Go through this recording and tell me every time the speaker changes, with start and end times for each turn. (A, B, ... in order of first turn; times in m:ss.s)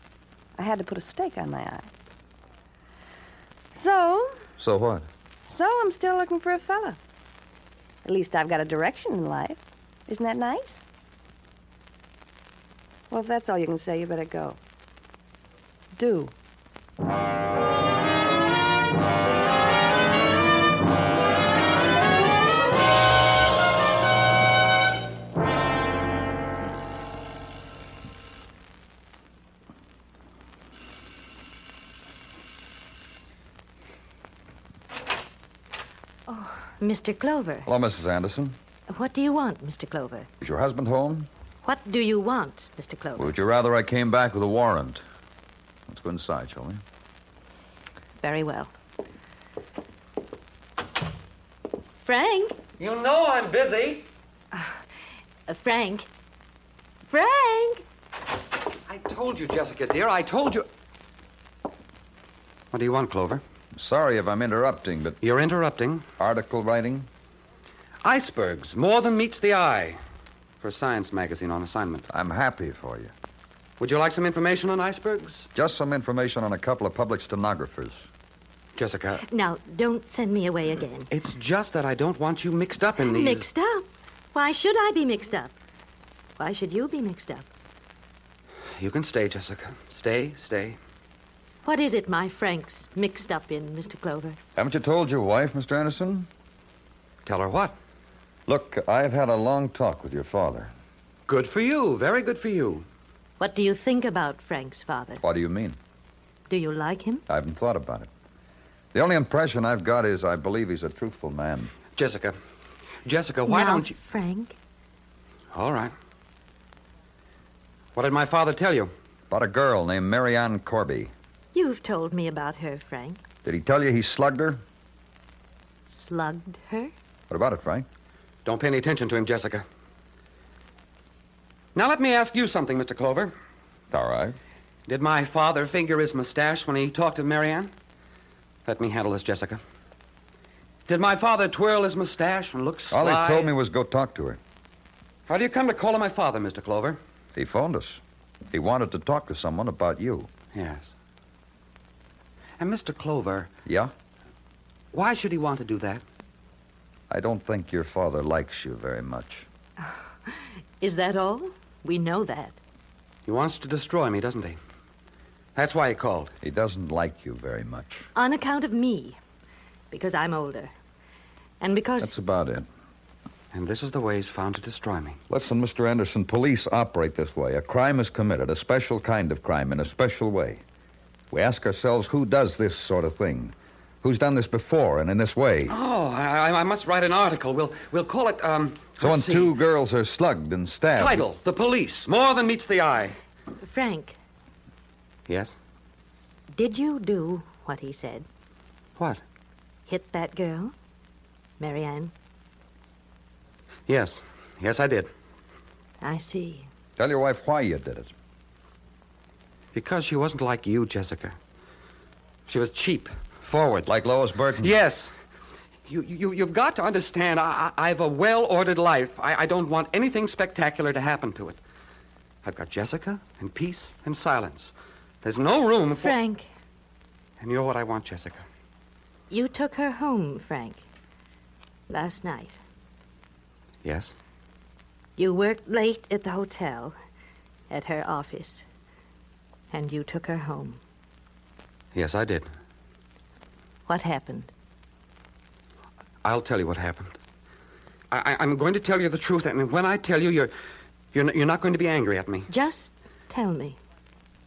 0:00.6-0:01.9 A
0:03.7-0:04.4 A
0:04.6-0:05.1 B
0:05.5-0:07.0 A
0:08.0-0:10.8 A
0:13.1-0:14.6 A
0:15.9-0:16.3 A
0:36.3-0:37.7 C
0:37.6-0:38.6 B
0:38.9-0:40.3 C
0:40.4-0:41.3 B
0:41.6-0:43.3 C
0:43.2-0:45.0 B
0:45.9-0:46.8 B
0:48.2-0:48.7 C
0:52.0-0:52.6 C
0:52.8-0:54.1 D
0:55.5-0:56.1 C
0:57.1-0:57.8 C
0:58.9-1:00.6 D
1:02.7-1:03.4 D
1:03.7-1:05.2 B
1:05.2-1:06.0 D
1:06.2-1:07.1 B
1:08.0-1:10.0 D
1:10.6-1:12.1 D
1:12.1-1:13.1 B
1:13.8-1:15.5 D
1:15.5-1:18.1 B
1:18.8-1:19.2 D
1:19.2-1:21.1 C
1:21.1-1:23.5 D
1:23.0-1:25.5 C
1:26.4-1:27.5 C
1:28.8-1:30.8 D
1:31.6-1:34.4 C
1:34.6-1:36.3 B
1:37.2-1:37.8 D
1:38.5-1:40.7 B
1:41.3-1:42.8 D
1:43.4-1:45.2 C
1:45.2-1:45.8 B
1:46.5-1:47.2 C
1:47.3-1:48.1 B
1:48.9-1:51.7 B
1:52.0-1:52.3 D
1:53.0-1:53.9 D
1:53.5-1:54.6 C
1:55.5-1:55.9 D
1:57.9-1:58.9 D
1:59.3-2:01.1 B
2:01.5-2:03.2 C
2:03.4-2:04.6 B
2:05.9-2:06.9 C
2:07.3-2:07.8 B
2:08.4-2:09.6 D
2:11.7-2:13.3 D
2:13.9-2:14.4 B
2:14.9-2:17.7 D
2:18.6-2:19.6 D
2:20.9-2:23.5 D
2:22.9-2:24.4 B
2:25.3-2:27.0 D
2:27.3-2:30.3 B
2:30.5-2:30.9 D
2:32.6-2:33.5 D
2:33.6-2:33.9 B
2:34.9-2:36.0 D
2:37.1-2:39.5 B
2:40.3-2:42.6 C
2:43.2-2:44.6 D
2:45.5-2:46.3 D
2:46.4-2:48.1 B
2:48.1-2:49.2 C
2:49.9-2:50.7 C
2:51.6-2:52.1 C
2:52.0-2:52.7 B
2:53.5-2:55.2 D
2:55.3-3:00.6 B
3:01.3-3:05.8 B
3:05.7-3:09.5 D
3:09.0-3:11.2 B
3:10.9-3:13.2 D
3:13.6-3:14.2 C
3:15.3-3:15.5 D
3:16.5-3:18.2 C
3:19.0-3:19.2 D
3:19.9-3:20.7 C
3:21.6-3:22.1 C
3:23.9-3:25.1 D
3:26.0-3:26.7 C
3:27.0-3:28.1 B
3:29.7-3:31.3 D
3:32.5-3:33.9 D
3:33.8-3:34.7 B
3:34.6-3:35.1 D
3:35.9-3:41.6 D
3:42.4-3:46.2 D
3:46.0-3:46.5 C
3:47.4-3:48.4 D
3:49.3-3:50.8 C
3:51.9-3:52.6 C
3:53.8-3:54.1 D
3:55.2-3:57.0 C
3:57.7-3:58.6 C
3:59.7-4:00.8 C
4:01.9-4:02.5 D
4:03.9-4:04.5 C
4:06.2-4:07.2 D
4:08.1-4:10.5 D
4:11.1-4:12.5 D
4:12.5-4:13.8 C